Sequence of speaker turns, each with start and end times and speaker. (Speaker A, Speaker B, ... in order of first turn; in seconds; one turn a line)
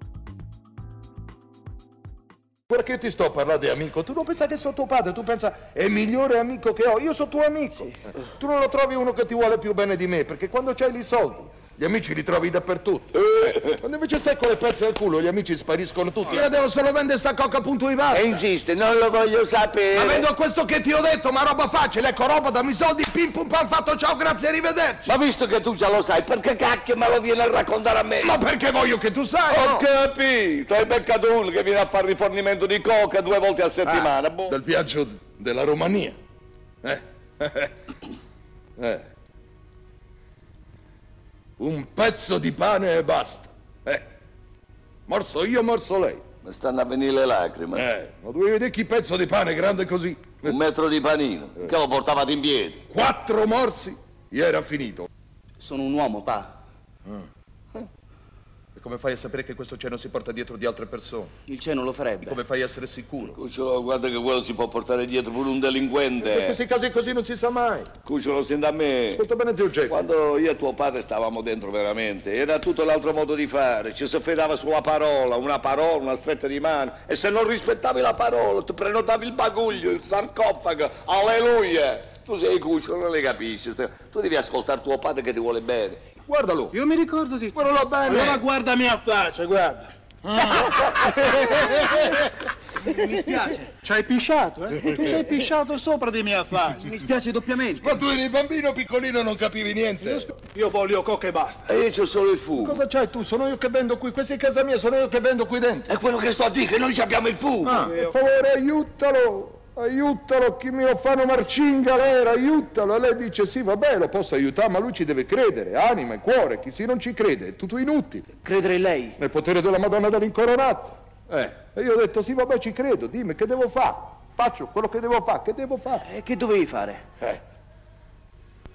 Speaker A: 2.7-18.4
Speaker B: 13.3-13.8
Speaker B: 18.1-20.3
Speaker A: 19.9-25.1
Speaker B: 25.1-28.3
Speaker A: 28.2-29.9
Speaker B: 29.5-34.5
Speaker A: 33.8-36.2
Speaker A: 36.8-37.7
Speaker A: 38.8-39.1
Speaker A: 41.6-44.0
Speaker A: 45.1-46.2
Speaker B: 46.4-47.9
Speaker A: 47.7-50.6
Speaker B: 50.4-52.8
Speaker A: 52.9-55.1
Speaker C: 55.6-56.5
Speaker A: 58.8-61.3
Speaker C: 61.5-62.4
Speaker A: 62.2-63.4
Speaker B: 63.3-66.6
Speaker A: 66.2-67.9
Speaker B: 68.0-69.2
Speaker A: 69.1-70.1
Speaker B: 69.9-86.0
Speaker A: 86.3-86.8
Speaker D: 86.7-89.9
Speaker A: 87.5-88.4
Speaker A: 90.3-92.3
Speaker C: 92.9-93.7
Speaker A: 93.8-95.6
Speaker D: 95.0-96.9
Speaker C: 96.8-97.9
Speaker A: 97.8-100.3
Speaker D: 100.4-101.7
Speaker B: 101.7-102.8
Speaker A: 102.6-105.9
Speaker B: 105.9-107.8
Speaker A: 107.6-118.2
Speaker D: 107.7-108.1
Speaker C: 118.4-119.2
Speaker A: 119.2-126.0
Speaker C: 126.0-127.0